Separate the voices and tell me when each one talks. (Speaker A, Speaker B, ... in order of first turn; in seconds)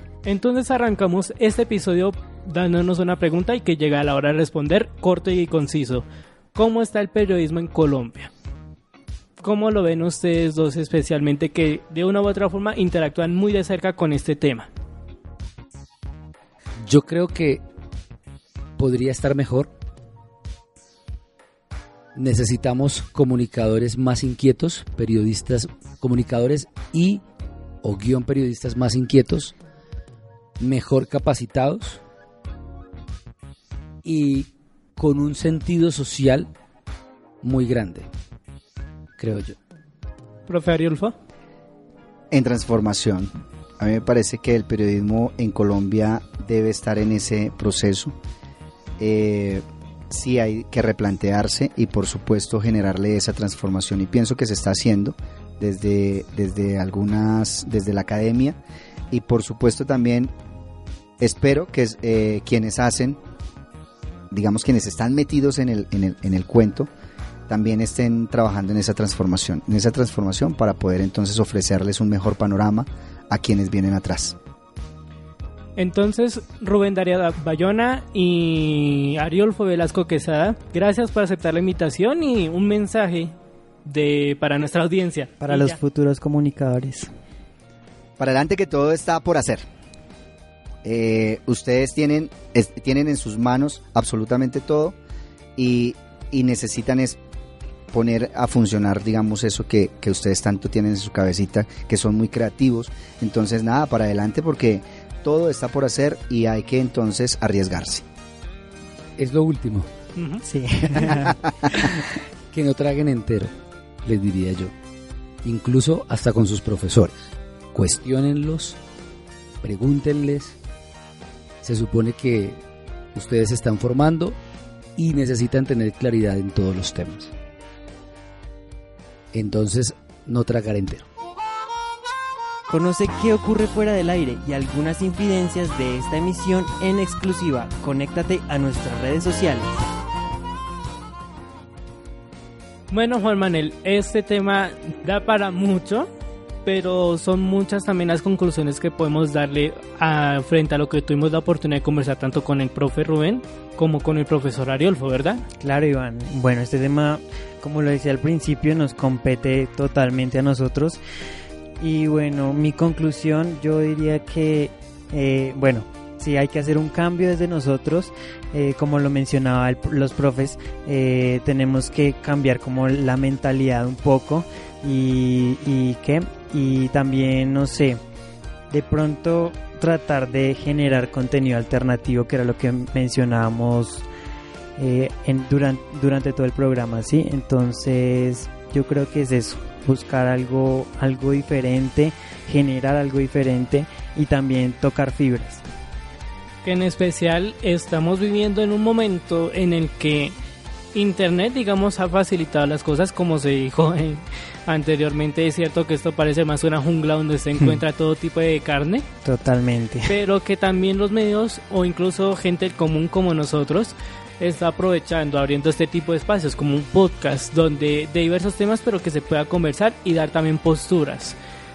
Speaker A: 0.2-8.3, 9.4-14.7, 40.5-41.1, 75.8-83.3, 83.8-85.8, 110.2-110.4, 142.9-146.1, 146.7-155.4, 196.6-200.3, 200.9-209.1, 210.1-221.4
Speaker B: 16.8-17.6, 18.8-19.7, 22.1-27.2, 27.8-29.6, 30.6-32.0, 34.0-36.5, 37.4-38.1, 39.2-39.6, 109.2-109.9, 112.5-113.5, 114.0-114.7, 115.4-117.1, 117.7-118.8, 119.6-120.6, 121.6-122.6, 123.1-124.4, 125.0-127.3, 129.3-131.1
Speaker C: 42.3-48.1, 49.0-58.6, 59.1-60.3, 61.2-63.2, 64.3-66.9, 67.5-74.4, 88.2-89.7, 90.8-95.0, 95.6-97.2, 97.9-108.0
Speaker D: 85.4-87.1, 110.4-111.4, 132.7-139.7, 155.6-161.0, 161.8-178.0, 178.7-184.1, 184.8-195.6, 209.2-210.1